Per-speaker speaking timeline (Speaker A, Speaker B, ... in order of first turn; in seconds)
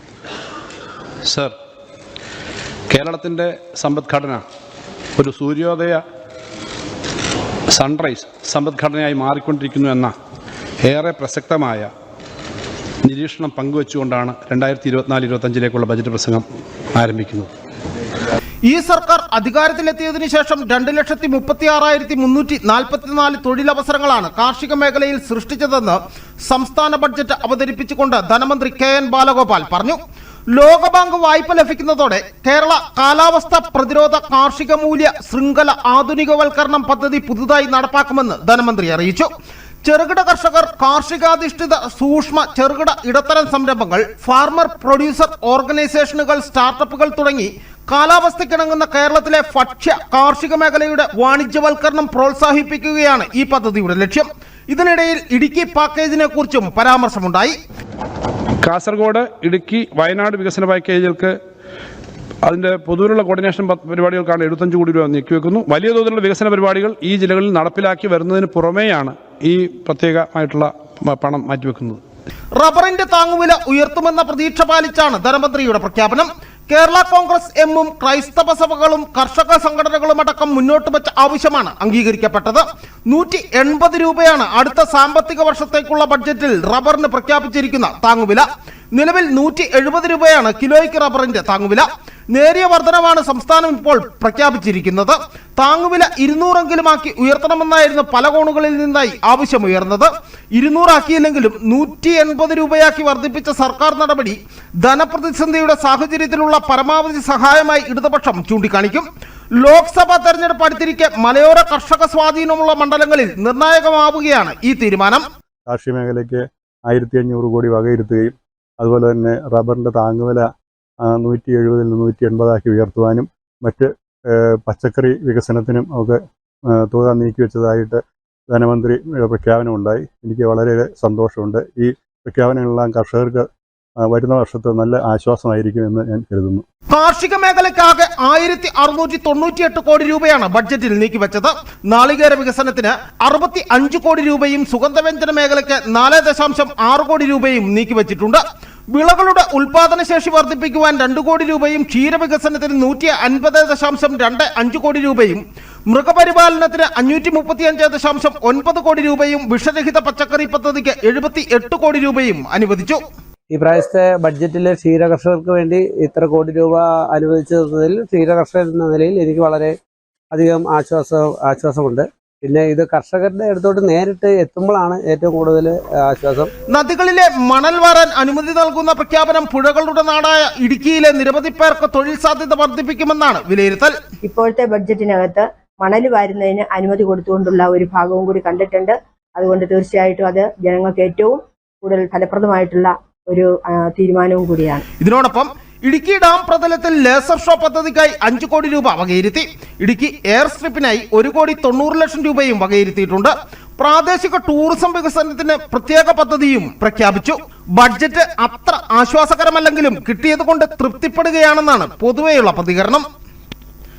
Speaker A: 1.2-1.5, 2.9-4.4, 5.2-6.0, 7.7-10.1, 10.8-11.9, 13.0-17.5, 58.6-61.4, 62.4-72.0
Speaker B: 18.6-30.0, 30.5-39.3, 39.8-57.5, 72.6-109.1, 109.6-115.2, 136.9-148.4, 148.9-163.0, 176.7-183.9, 195.0-213.0
Speaker C: 115.7-120.5, 121.0-126.2, 126.7-133.5, 134.0-136.6
Speaker D: 163.5-169.8, 170.3-176.5
Speaker E: 184.2-194.8